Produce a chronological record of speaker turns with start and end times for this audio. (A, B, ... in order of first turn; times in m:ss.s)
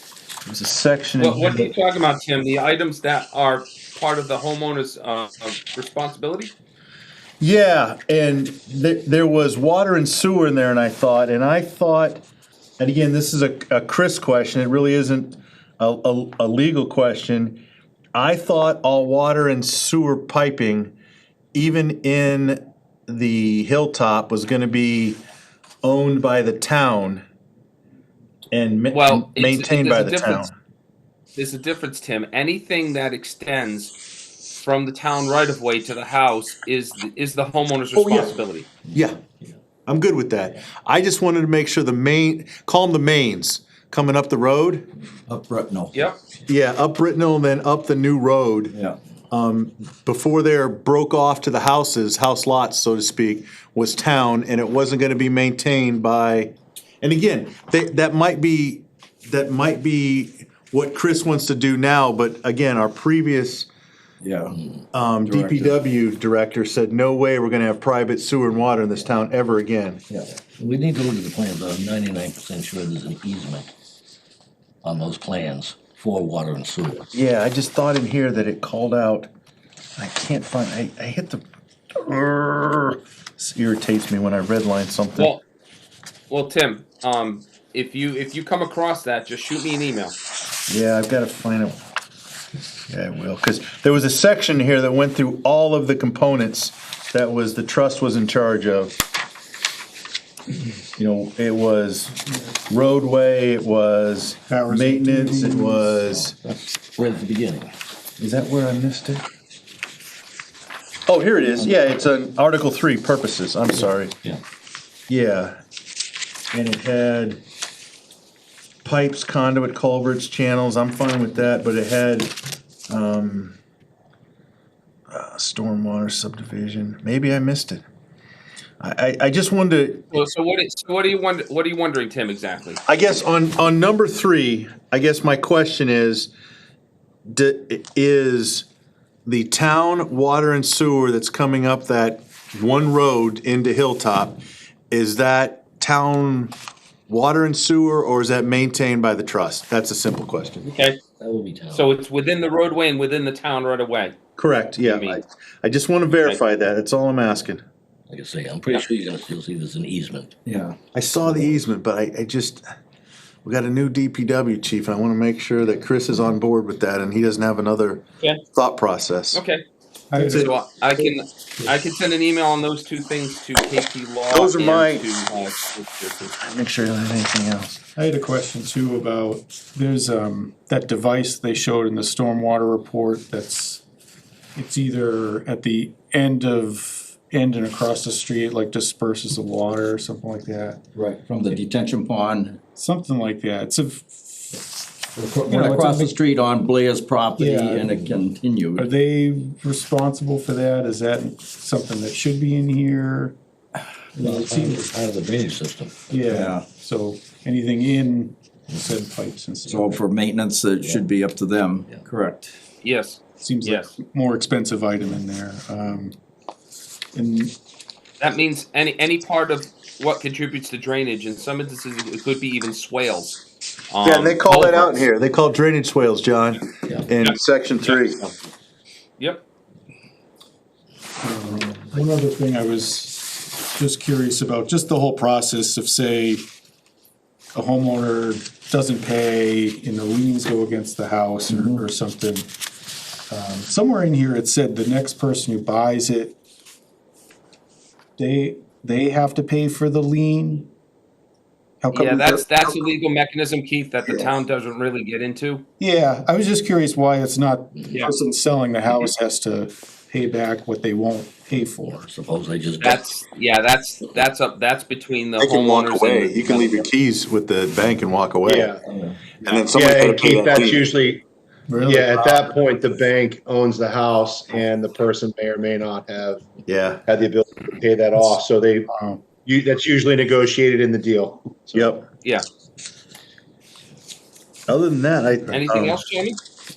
0:00.4-0:01.7 A
0:01.2-0:06.5 B
0:07.4-0:12.2 A
0:12.8-0:17.6 A
0:18.1-0:20.9 A
0:21.5-0:25.2 A
0:25.8-0:27.2 A
0:28.5-0:30.5 A
0:28.9-0:30.4 B
0:31.4-0:33.9 B
0:34.6-0:38.7 B
0:37.9-0:38.3 A
0:38.9-0:39.2 A
0:39.8-0:44.9 A
0:45.3-0:46.1 C
0:46.5-0:48.7 A
0:49.3-1:03.7 A
1:04.2-1:04.6 C
1:04.9-1:10.0 A
1:05.2-1:05.8 C
1:10.5-1:13.7 D
1:14.8-1:17.1 D
1:17.1-1:19.3 A
1:20.0-1:21.4 A
1:21.9-1:25.3 A
1:25.1-1:25.4 B
1:26.3-1:30.2 B
1:30.7-1:31.8 A
1:32.9-1:39.0 A
1:41.0-1:46.4 A
1:44.5-1:46.0 E
1:46.2-1:47.7 D
1:48.2-1:49.2 A
1:51.1-1:54.2 A
1:55.1-1:55.6 A
1:56.5-1:57.4 A
1:58.8-2:02.4 A
2:02.9-2:03.6 A
2:05.1-2:07.8 A
2:08.8-2:10.1 A
2:10.1-2:12.8 B
2:12.9-2:16.3 A
2:17.2-2:18.7 A
2:19.2-2:24.4 A
2:24.9-2:26.5 A
2:27.1-2:30.6 A
2:30.6-2:31.0 B
2:31.2-2:31.9 D
2:31.7-2:34.2 B
2:34.4-2:37.6 A
2:34.8-2:35.2 B
2:38.1-2:40.3 D
2:40.4-2:40.8 C
2:40.9-2:42.6 A
2:43.4-2:49.4 A
2:49.3-2:49.6 B
2:50.1-2:51.0 E
2:50.2-2:50.5 A
2:50.2-2:56.2 B
2:54.3-2:55.1 A
2:56.3-2:57.8 A
2:57.9-3:03.8 E
3:04.5-3:10.8 E
3:10.9-3:12.6 C
3:12.8-3:14.6 E
3:15.1-3:18.9 C
3:15.5-3:16.2 E
3:17.4-3:18.1 E
3:18.8-3:23.4 E
3:24.2-3:24.9 E
3:24.2-3:26.2 D
3:26.1-3:30.0 E
3:26.3-3:26.7 C
3:29.6-3:32.5 C
3:30.8-3:31.0 D
3:32.8-3:33.9 B
3:33.4-3:36.2 E
3:37.1-3:37.5 E
3:38.2-3:43.4 B
3:43.9-3:44.9 B
3:44.0-3:48.2 A
3:47.2-3:48.5 B
3:49.2-3:49.4 B
3:51.2-3:56.4 E
3:57.5-4:02.5 E
4:01.5-4:01.8 C
4:03.3-4:06.4 E
4:08.2-4:10.7 E
4:11.8-4:12.8 E
4:11.9-4:15.6 B
4:15.8-4:22.1 E
4:22.0-4:23.0 D
4:22.8-4:26.9 B
4:25.4-4:28.7 A
4:28.4-4:28.8 F
4:29.4-4:30.8 A
4:29.5-4:31.2 F
4:31.7-4:32.6 E
4:31.8-4:36.4 F
4:36.6-4:37.0 A
4:37.0-4:38.9 F
4:38.2-4:39.2 E
4:39.4-4:41.9 F
4:41.7-4:42.1 A
4:44.7-4:46.0 A
4:45.5-4:46.4 B